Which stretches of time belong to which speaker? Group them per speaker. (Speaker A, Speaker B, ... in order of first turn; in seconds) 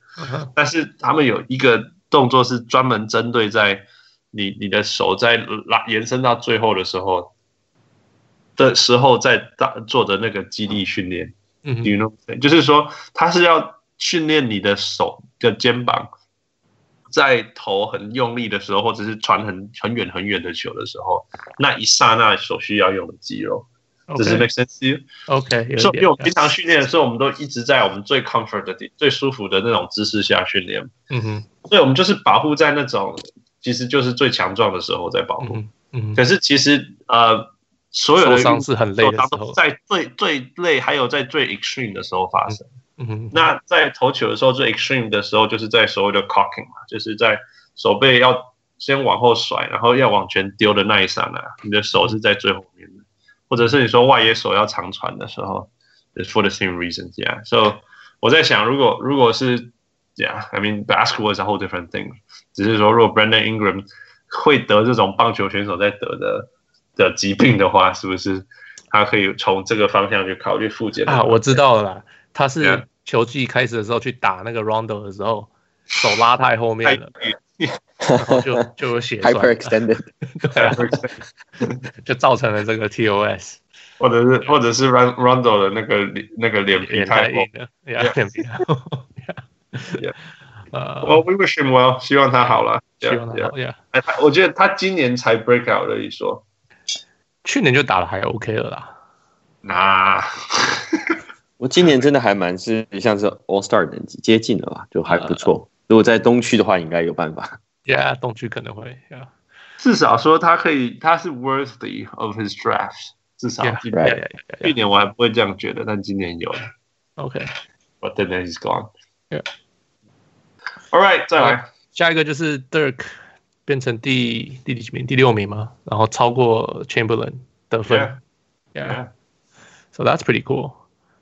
Speaker A: 0.2-0.5, 11.7-11.9, 24.1-24.5, 25.3-26.5, 31.1-31.5, 35.4-36.2, 38.2-39.6, 42.5-43.5, 71.1-77.1, 78.2-79.8, 80.3-80.8, 82.0-83.6, 86.8-90.0, 90.7-91.2, 93.0-93.8, 97.4-98.9, 105.1-105.5, 107.9-109.3, 113.6-114.8, 117.2-117.5, 121.4-123.1, 123.7-128.2, 128.7-129.0, 129.9-130.8
Speaker B: 0.6-7.3, 8.6-16.1, 17.1-25.1, 25.8-30.9, 31.7-35.6, 36.1-42.7, 43.3-71.6, 72.6-72.8, 76.8-77.8, 80.5-81.8, 84.0-88.1, 91.0-96.4, 99.6-101.2, 109.8-113.9, 114.6-116.7, 118.0-118.9, 120.9-121.6, 127.9-128.2, 128.8-129.1
Speaker C: 78.0-78.7, 79.2-80.1, 101.6-107.6, 113.9-114.2